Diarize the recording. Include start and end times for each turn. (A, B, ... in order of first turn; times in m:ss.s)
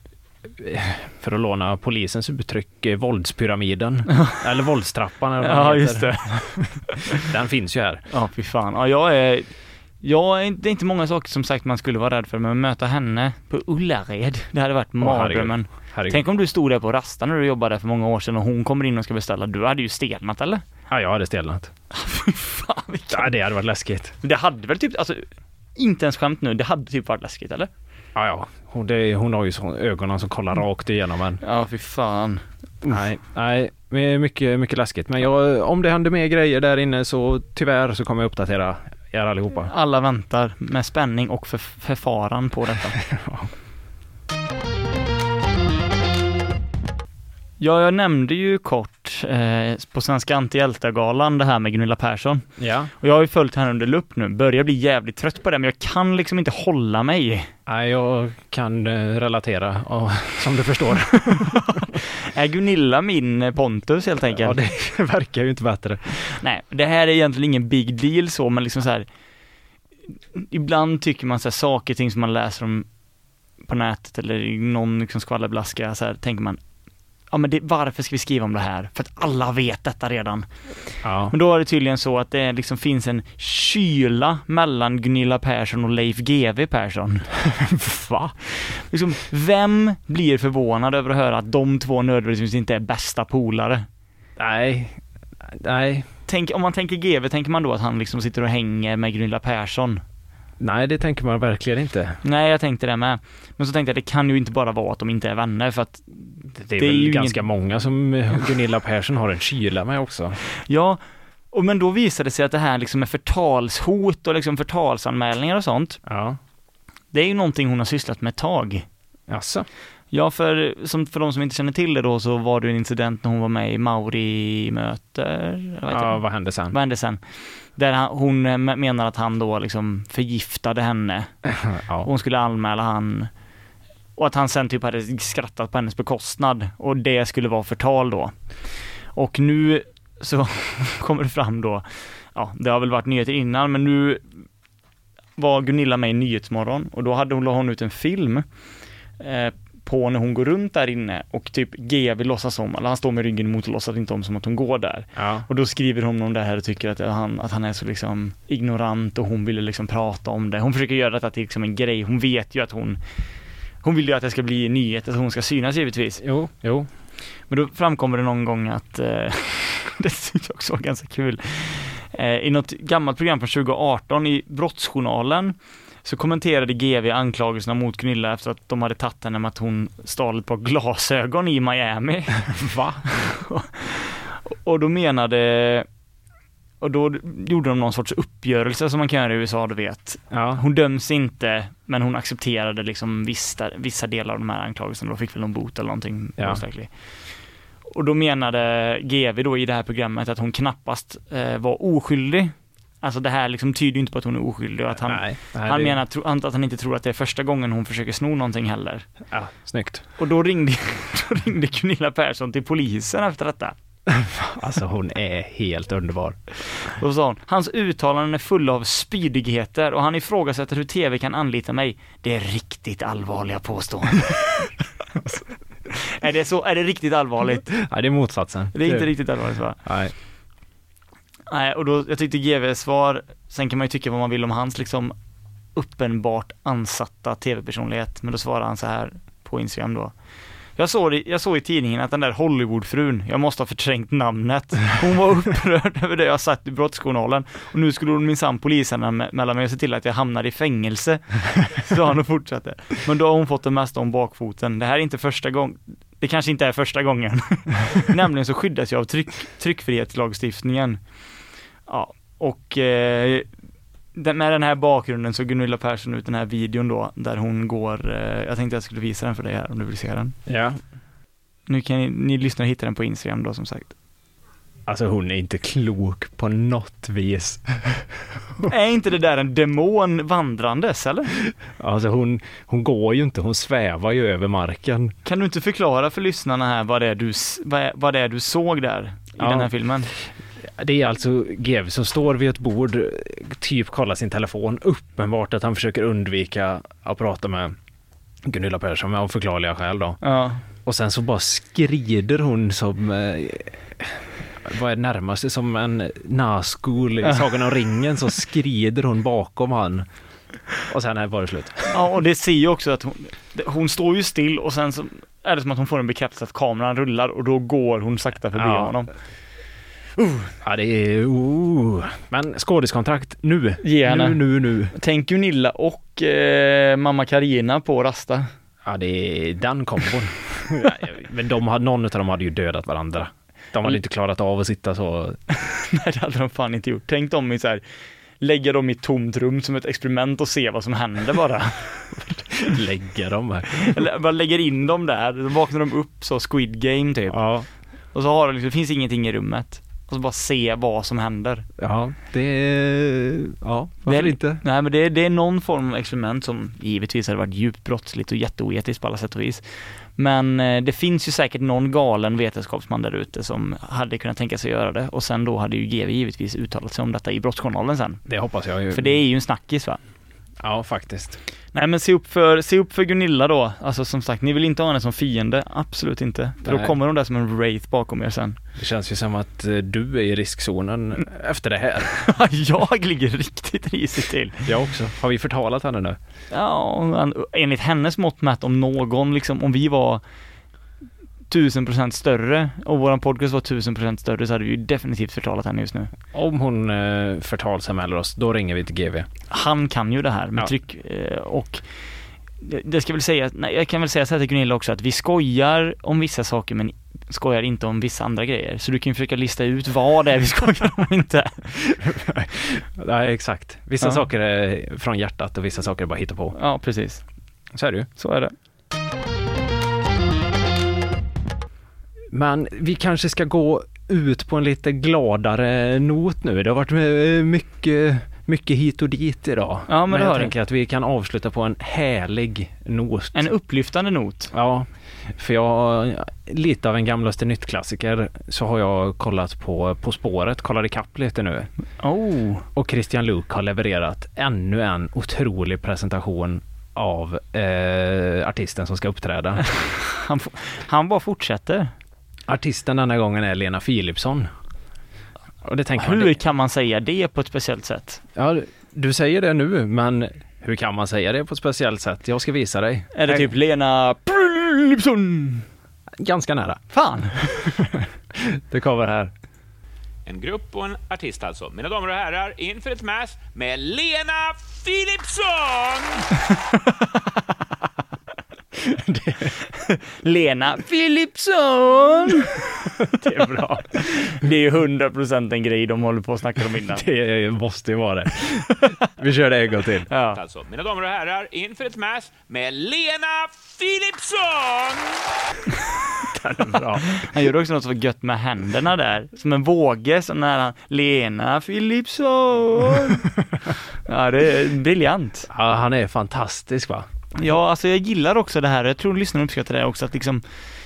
0:00.4-0:08.0 A
0:05.4-0:07.2 B
0:08.1-0:20.6 B
0:15.0-0:16.2 A
0:20.9-0:21.7 A
0:21.9-0:23.3 B
0:23.1-0:24.2 A
0:24.2-0:27.7 B
0:28.1-0:31.4 A
0:31.4-0:32.4 B
0:32.8-0:39.7 A
0:39.7-0:43.0 B
0:43.1-0:43.5 A
0:47.6-0:57.5 B
0:52.6-0:52.9 A
0:57.6-1:01.7 A
1:01.4-1:04.6 B
1:04.3-1:06.3 A
1:06.2-1:09.1 B
1:10.3-1:12.9 B
1:13.6-1:16.6 B
1:17.3-1:27.4 B
1:21.0-1:21.3 A
1:27.6-1:28.4 A
1:28.4-1:33.9 B
1:34.4-1:36.1 A
1:36.3-1:40.0 B
1:40.6-1:42.2 A
1:42.2-1:47.4 B
1:46.5-1:50.4 A
1:50.6-1:51.0 B
1:51.5-1:56.0 B
1:56.0-1:56.4 A
1:57.1-1:58.8 B
1:59.3-1:59.7 A
2:00.1-2:13.3 B
2:05.9-2:06.7 A
2:11.6-2:12.1 A
2:14.2-2:24.2 B
2:25.4-2:28.4 B
2:29.2-2:43.0 B
2:35.2-2:35.5 A
2:43.8-2:46.2 B
2:46.2-2:46.9 A
2:47.5-3:05.9 B
3:02.6-3:03.2 A
3:06.8-3:29.1 B
3:10.3-3:10.6 A
3:16.4-3:16.6 A
3:25.1-3:26.0 A
3:29.3-3:30.0 A
3:30.2-3:33.7 B
3:34.2-3:36.4 A
3:36.8-3:44.7 B
3:45.9-3:47.9 B
3:47.8-3:50.1 A
3:48.7-3:49.8 B
3:51.5-3:55.1 B
3:55.7-4:21.3 B
4:21.8-4:23.5 B
4:24.1-4:30.4 B
4:30.4-4:30.8 A
4:31.7-4:33.9 B
4:34.9-4:38.7 A
4:38.6-4:41.3 B
4:41.8-4:45.1 A
4:45.2-4:50.1 B
4:49.4-4:57.8 A
4:58.4-5:00.2 A
5:00.2-5:00.6 B
5:00.7-5:10.1 A
5:10.8-5:12.0 A
5:11.9-5:19.1 B
5:18.5-5:19.0 A
5:20.2-5:20.5 B
5:20.6-5:24.9 A
5:23.8-5:28.5 B
5:28.8-5:35.4 A
5:35.7-5:37.8 B
5:38.4-5:42.4 B
5:42.6-5:44.0 A
5:43.8-5:47.4 B
5:47.3-5:47.7 A
5:48.1-5:51.7 B
5:51.8-5:54.6 A
5:54.0-6:08.3 B
6:08.3-6:09.2 A
6:08.9-6:10.0 B
6:10.6-6:11.4 A
6:11.7-6:18.6 B
6:16.6-6:16.9 A
6:18.7-6:22.1 A
6:22.2-6:24.7 B
6:24.6-6:26.2 A
6:26.5-6:30.2 B
6:31.5-6:36.1 B
6:36.3-6:39.3 A
6:39.5-6:41.9 B
6:42.6-6:51.8 B
6:52.0-6:56.5 A
6:54.0-6:54.2 B
6:56.5-6:57.2 B
6:57.7-6:58.1 A
6:58.2-6:58.5 B
7:02.3-7:13.5 A
7:09.9-7:10.5 B
7:13.3-7:14.5 B
7:14.5-7:21.7 A
7:22.0-7:22.6 B
7:22.7-7:29.6 A
7:29.7-7:31.9 B
7:32.5-7:34.5 A
7:35.6-7:36.3 A
7:36.0-7:38.2 B
7:38.3-7:43.5 A
7:43.1-7:45.6 B
7:46.2-7:49.3 A
7:46.9-7:47.4 B
7:50.2-7:56.3 C
7:58.9-7:59.5 A
7:59.7-8:07.0 B
8:03.2-8:04.0 A
8:06.9-8:10.1 A
8:10.1-8:10.4 B
8:10.3-8:15.2 C
8:16.5-8:17.0 A
8:16.6-8:23.3 B
8:24.0-8:25.5 B
8:25.5-8:27.1 A
8:27.3-8:30.4 B